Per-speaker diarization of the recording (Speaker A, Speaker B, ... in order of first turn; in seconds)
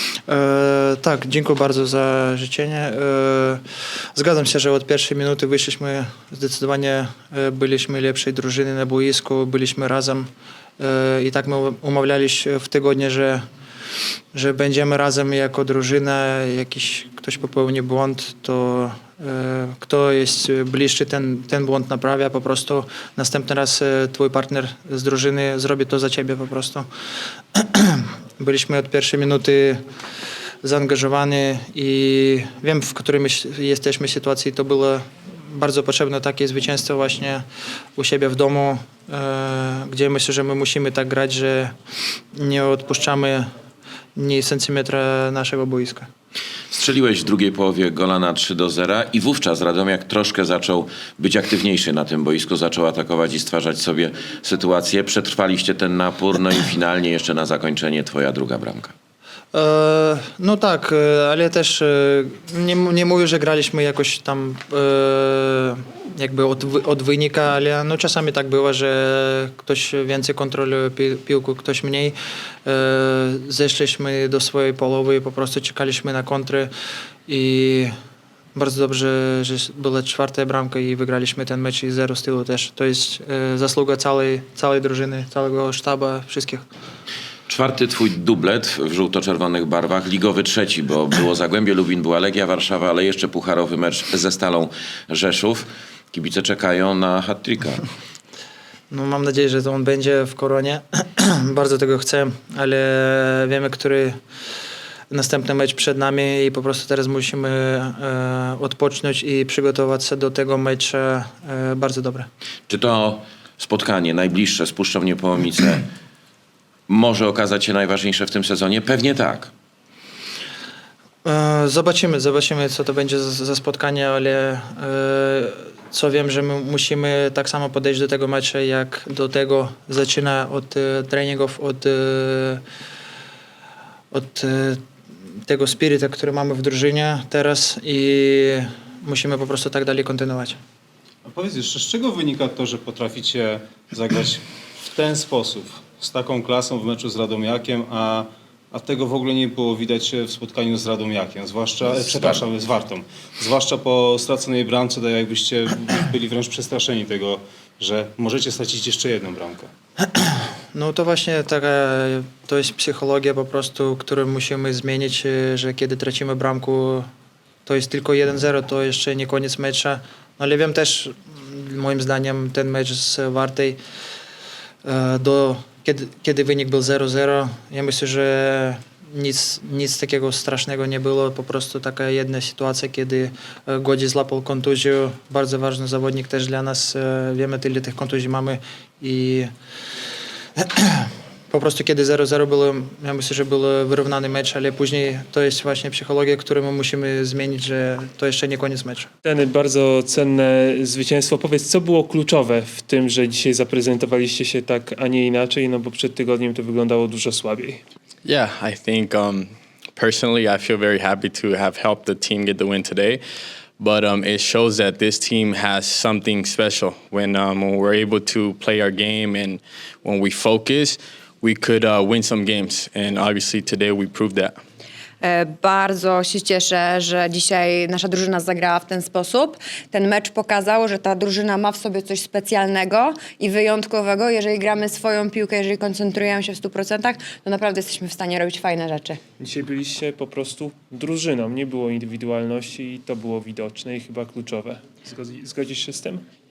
Speaker A: 0.3-3.6, 4.1-10.3, 10.8-13.4, 14.3-26.9, 27.5-29.8, 30.6-37.4, 38.0-41.7, 42.3-43.5, 44.1-46.1, 59.5-76.7, 77.3-77.9, 78.5-86.6, 98.9-104.2, 105.1-112.3, 121.2-132.6, 134.1-134.8, 135.4-140.6, 160.2-167.1, 167.7-173.8, 174.8-189.5, 190.6-199.1
Speaker B: 46.7-58.9, 87.5-97.8, 112.7-115.9, 116.9-119.5
Speaker C: 141.2-159.7
Speaker D: 199.2-207.8, 239.4-246.2
Speaker E: 208.2-213.2, 213.8-224.6
Speaker F: 225.2-239.2